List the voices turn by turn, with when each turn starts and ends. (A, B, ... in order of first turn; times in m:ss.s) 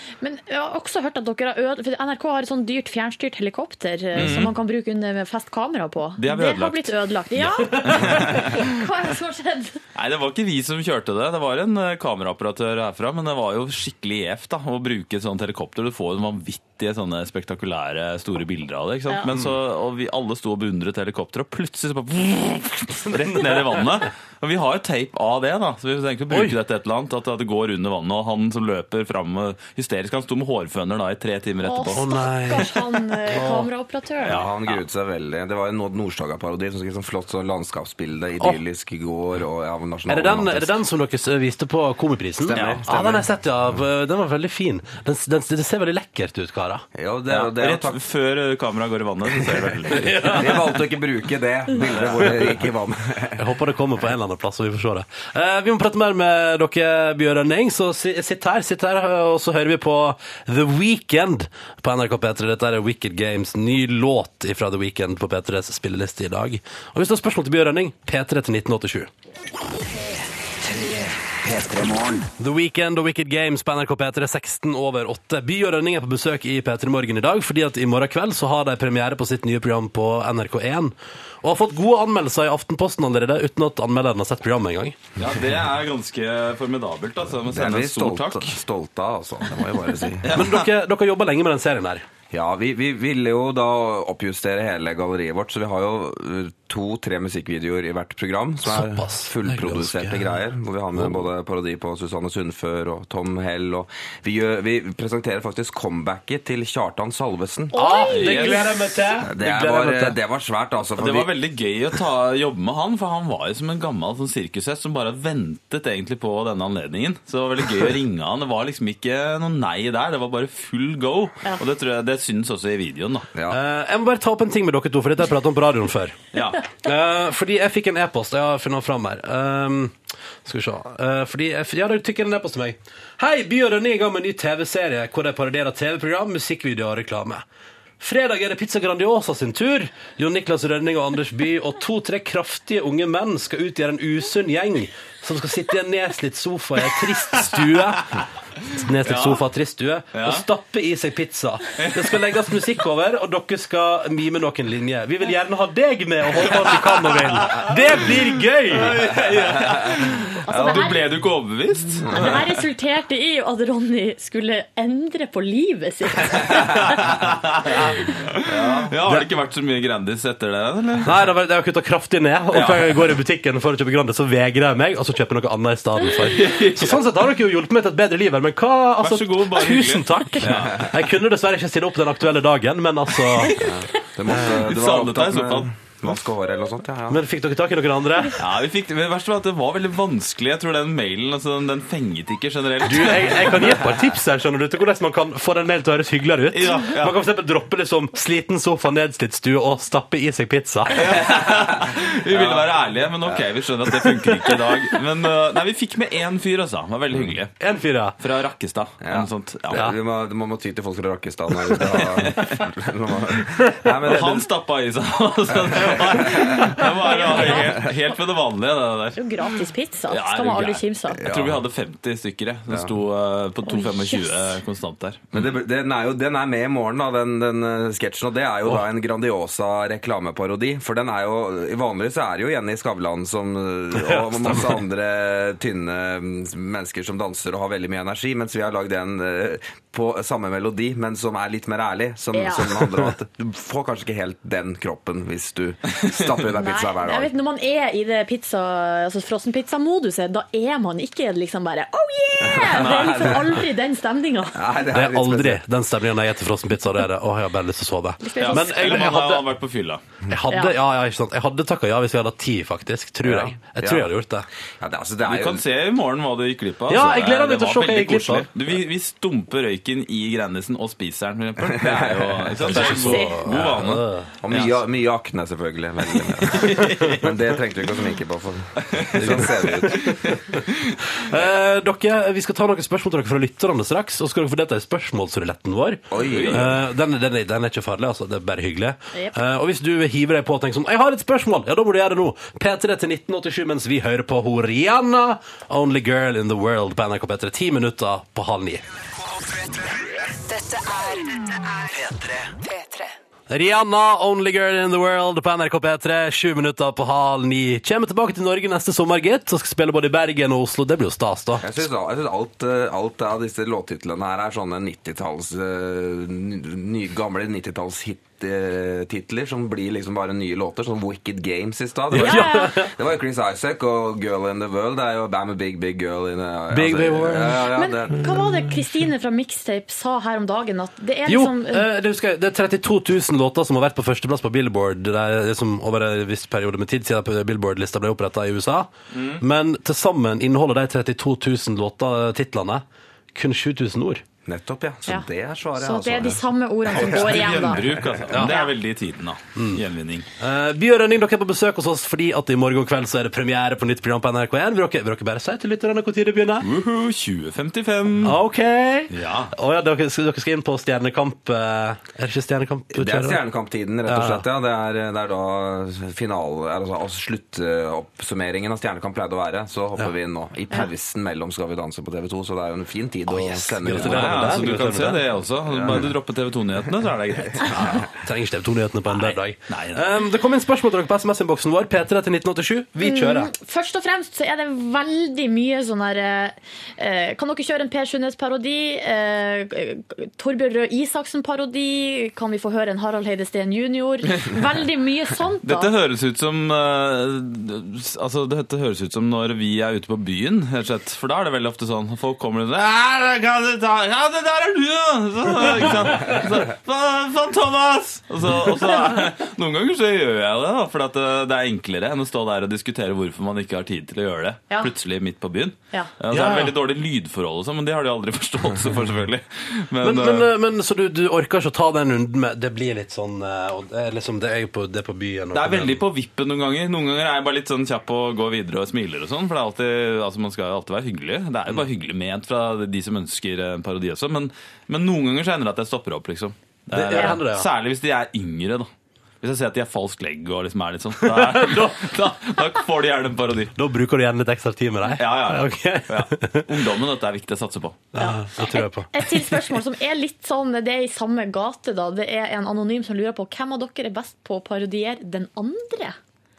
0:00.2-0:09.8 A
0:04.1-0:04.6 B
0:06.2-0:08.8 B
0:09.9-0:32.1 B
0:26.3-0:26.6 C
0:31.6-0:34.4 A
0:31.9-0:33.6 C
0:34.2-0:34.8 B
0:34.3-0:40.7 D
0:40.1-0:46.8 C
0:42.5-0:42.8 B
0:42.5-0:43.3 D
0:46.9-0:48.0 D
0:47.3-0:50.5 B
0:49.9-0:50.8 C
0:50.3-0:53.4 D
0:51.7-0:52.4 B
0:53.4-1:09.1 C
1:10.0-1:12.3 E
1:12.4-1:25.0 C
1:25.2-1:28.6 B
1:27.5-1:30.4 D
1:30.2-1:30.7 B
1:30.3-1:32.0 C
1:32.3-1:47.7 D
1:38.6-1:40.4 C
1:40.9-1:41.2 C
1:47.7-1:48.7 A
1:47.7-1:50.2 C
1:48.1-1:48.7 B
1:49.2-1:51.3 D
1:51.0-2:03.3 B
2:03.3-2:03.6 D
2:03.5-2:06.2 C
2:06.3-2:06.6 B
2:06.8-2:17.4 C
2:18.0-2:28.1 C
2:28.8-2:39.0 C
2:29.0-2:29.4 B
2:30.1-2:30.4 B
2:31.8-2:32.2 B
2:36.6-2:38.0 B
2:38.7-2:42.5 B
2:40.4-2:41.1 A
2:40.6-2:40.9 D
2:42.1-2:46.9 A
2:46.6-2:51.2 B
2:51.0-3:03.6 C
2:52.5-2:53.1 B
2:56.2-2:57.0 B
2:59.0-3:00.9 B
3:03.5-3:07.2 D
3:04.3-3:04.6 C
3:04.4-3:06.1 B
3:07.1-3:08.4 C
3:08.4-3:13.9 B
3:12.8-3:21.1 C
3:16.5-3:17.1 B
3:20.9-3:27.5 B
3:22.3-3:24.1 D
3:27.6-3:28.2 C
3:28.2-3:29.9 B
3:29.0-3:34.5 D
3:31.9-3:32.6 B
3:34.0-3:39.6 B
3:35.7-3:36.4 D
3:36.9-3:37.9 A
3:39.2-3:41.2 A
3:40.1-3:45.5 B
3:41.2-3:41.6 D
3:43.6-3:44.6 A
3:45.3-4:07.3 D
3:53.9-3:54.8 C
4:02.3-4:02.8 A
4:06.6-4:14.6 A
4:12.4-4:13.3 D
4:12.6-4:13.5 B
4:14.5-4:15.6 D
4:14.9-4:19.5 C
4:18.2-4:19.1 A
4:18.4-4:20.0 B
4:20.3-4:24.4 C
4:20.5-4:20.7 A
4:23.2-4:24.1 D
4:24.8-4:25.6 D
4:25.2-4:34.8 B
4:26.9-4:28.5 C
4:31.6-4:32.8 D
4:32.6-4:34.3 C
4:32.9-4:33.4 A
4:34.4-4:40.2 D
4:36.1-4:37.4 B
4:39.0-4:39.3 B
4:39.2-4:40.1 C
4:41.2-4:58.8 C
4:46.1-4:46.7 D
4:46.1-4:46.8 B
4:59.3-5:03.1 E
5:03.5-5:11.7 C
5:11.6-5:28.4 D
5:22.1-5:22.9 C
5:22.2-5:22.8 A
5:26.7-5:28.4 C
5:27.7-5:31.9 A
5:31.2-5:42.8 C
5:39.1-5:39.4 B
5:43.3-5:44.2 C
5:44.4-5:46.4 D
5:45.1-5:48.7 A
5:46.9-5:50.2 B
5:47.0-5:47.2 D
5:49.6-5:49.8 C
5:50.4-5:56.7 C
5:56.6-5:58.4 B
5:58.2-6:03.4 C
5:59.1-5:59.5 B
6:02.9-6:14.8 D
6:04.1-6:04.4 C
6:13.8-6:15.2 C
6:13.9-6:18.0 B
6:15.7-6:16.1 D
6:18.2-6:23.5 C
6:19.1-6:20.0 B
6:23.0-6:35.9 A
6:35.6-7:00.5 B
6:56.3-6:56.7 C
7:00.0-7:06.0 C
7:05.5-7:18.9 B
7:16.9-7:17.7 C
7:17.1-7:17.4 A
7:19.4-7:23.7 B
7:21.2-7:22.0 C
7:23.7-7:26.6 C
7:25.2-7:28.0 B
7:28.1-7:29.6 C
7:28.2-7:36.2 A